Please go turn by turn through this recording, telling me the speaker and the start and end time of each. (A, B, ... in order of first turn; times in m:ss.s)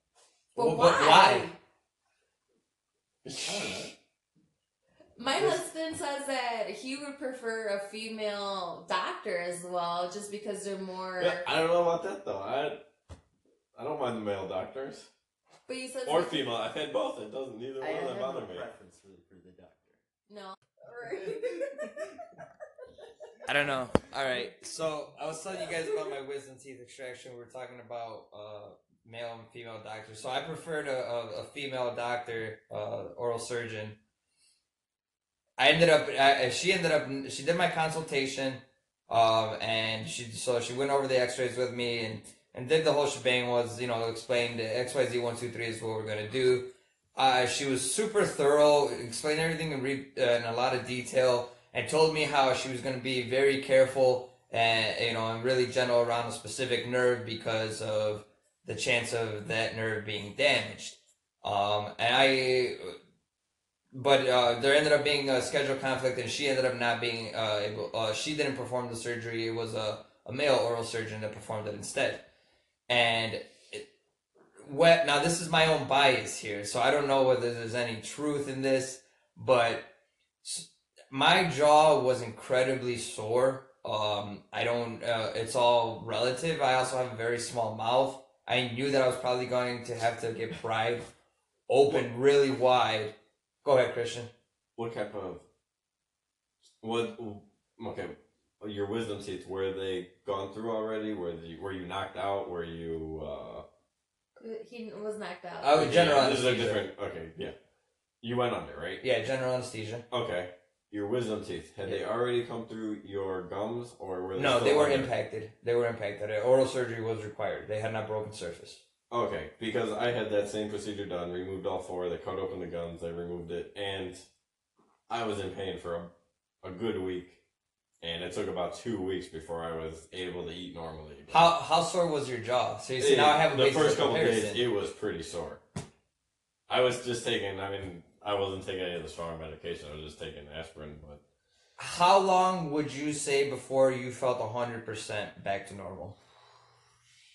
0:00.5-0:01.5 A
0:00.5-0:01.6 B
0:03.2-0:03.8 C
0:03.4-0:03.9 D
0:05.2-0:11.4 B
0:05.3-0:05.6 D
0:11.2-0:12.8 C
0:13.8-0:15.1 C
0:15.7-0:16.4 B
0:16.0-0:18.7 C
0:17.8-0:20.0 D
0:20.3-0:22.1 B
0:21.4-0:21.9 D
0:23.4-0:34.0 A
0:35.6-1:03.0 A
1:03.9-1:12.2 A
1:12.9-1:13.8 A
1:14.6-1:19.9 A
1:20.4-1:31.1 A
1:31.7-1:34.3 A
1:34.8-1:35.4 C
1:36.8-1:43.6 C
1:44.4-1:45.8 B
1:45.6-1:46.8 A
1:45.7-1:47.5 C
1:48.2-1:49.0 C
1:49.0-1:50.0 A
1:50.1-1:55.1 C
1:54.4-1:58.8 A
1:59.1-2:04.2 C
2:05.1-2:06.1 C
2:06.6-2:07.4 C
2:08.0-2:11.5 C
2:11.3-2:14.6 A
2:13.0-2:15.6 C
2:16.7-2:21.2 C
2:21.8-2:26.2 A